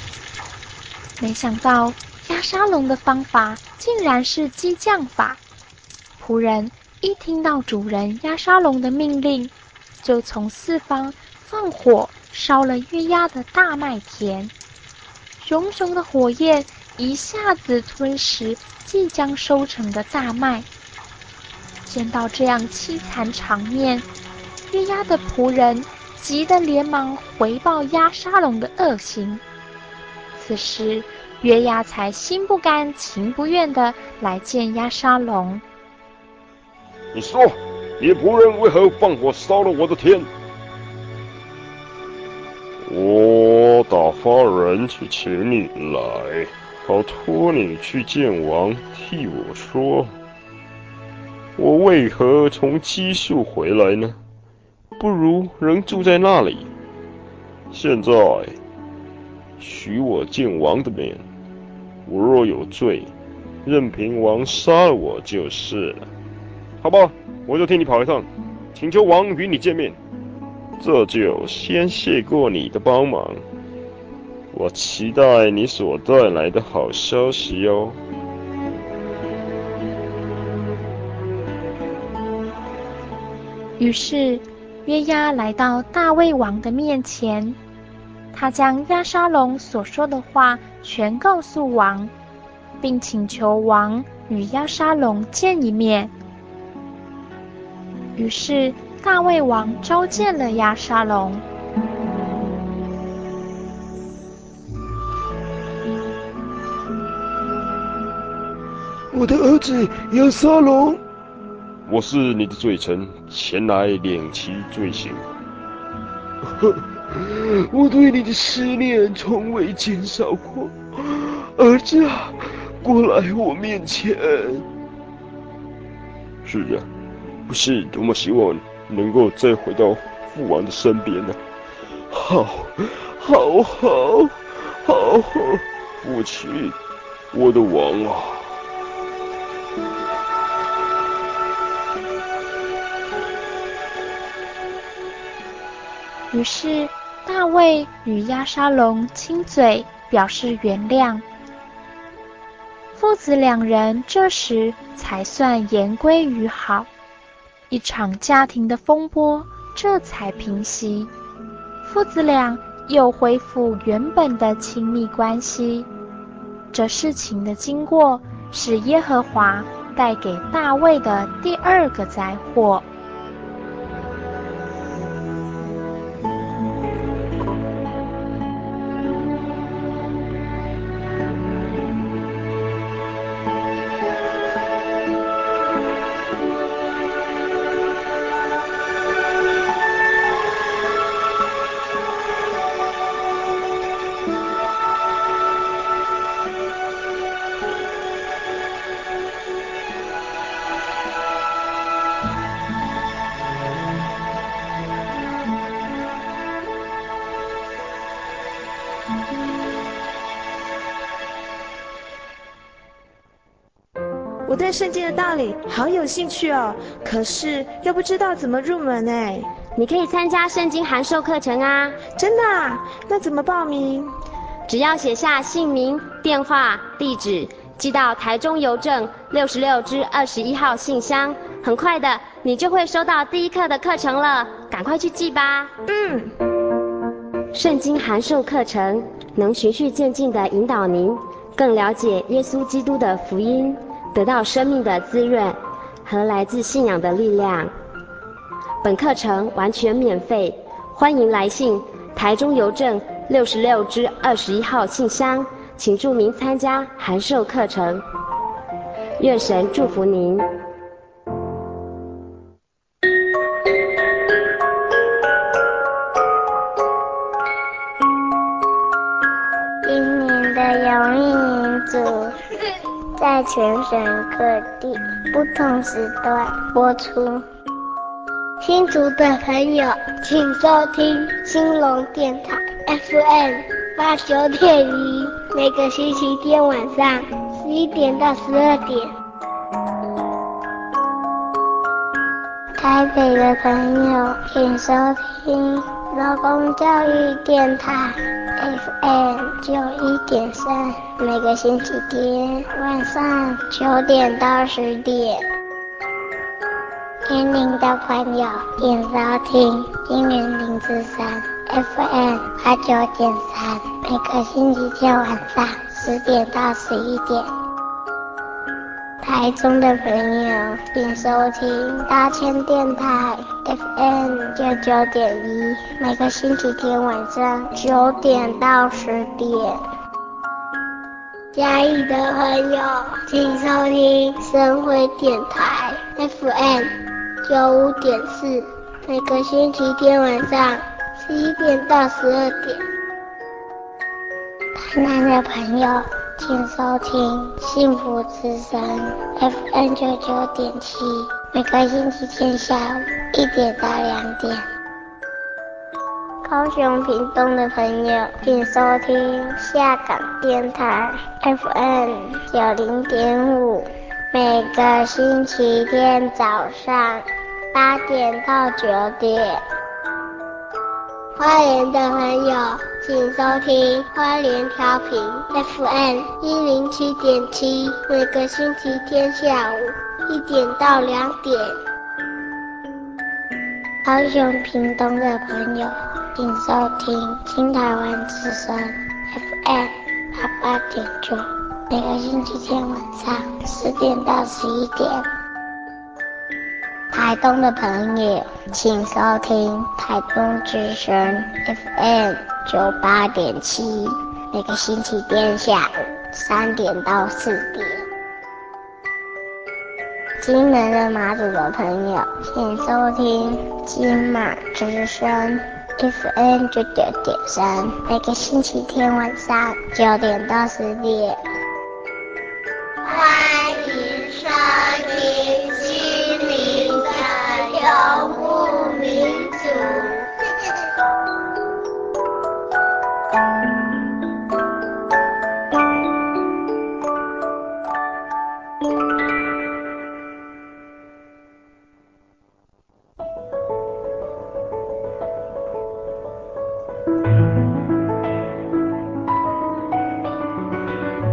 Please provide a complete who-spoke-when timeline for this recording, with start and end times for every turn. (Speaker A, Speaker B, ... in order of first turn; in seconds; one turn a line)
Speaker A: 1.2-5.4
Speaker A: 6.2-14.5
Speaker A: 15.4-20.7
Speaker A: 21.9-24.1
Speaker A: 24.7-29.4
Speaker A: 30.3-35.6
Speaker B: 37.1-40.3
Speaker B: 42.8-50.1
Speaker B: 51.6-54.2
Speaker B: 55.0-56.7
Speaker B: 57.7-58.6
Speaker B: 59.6-61.2
Speaker B: 62.0-63.1
Speaker B: 63.6-66.1
Speaker B: 66.8-70.0
Speaker B: 70.8-73.4
Speaker B: 74.5-78.0
Speaker A: 83.8-87.6
Speaker A: 88.3-92.1
Speaker A: 92.8-96.1
Speaker A: 98.2-101.4
Speaker C: 109.1-111.0
Speaker B: 111.9-115.3
Speaker C: 116.4-124.7
Speaker B: 126.4-126.9
Speaker B: 127.5-131.4
Speaker C: 132.1-134.1
Speaker B: 134.9-136.8
Speaker B: 137.3-138.5
Speaker A: 146.3-151.2
Speaker A: 152.9-156.9
Speaker A: 157.7-161.1
Speaker A: 161.8-165.9
Speaker A: 166.7-172.8
Speaker D: 214.4-219.5
Speaker E: 219.8-222.0
Speaker D: 222.1-224.1
Speaker E: 224.7-235.8
Speaker D: 235.9-236.3
Speaker E: 237.5-247.7
Speaker E: 248.8-258.0
Speaker E: 259.2-260.5
Speaker F: 269.8-272.4
Speaker F: 273.2-277.4
Speaker F: 278.6-289.1
Speaker F: 292.8-305.4
Speaker F: 307.3-317.5
Speaker F: 319.2-329.8
Speaker F: 331.5-336.9
Speaker F: 337.4-342.8
Speaker F: 344.8-354.6
Speaker F: 356.4-369.6
Speaker F: 371.4-381.8
Speaker F: 384.0-395.3
Speaker F: 397.1-408.1
Speaker F: 410.4-421.4
Speaker F: 423.0-430.4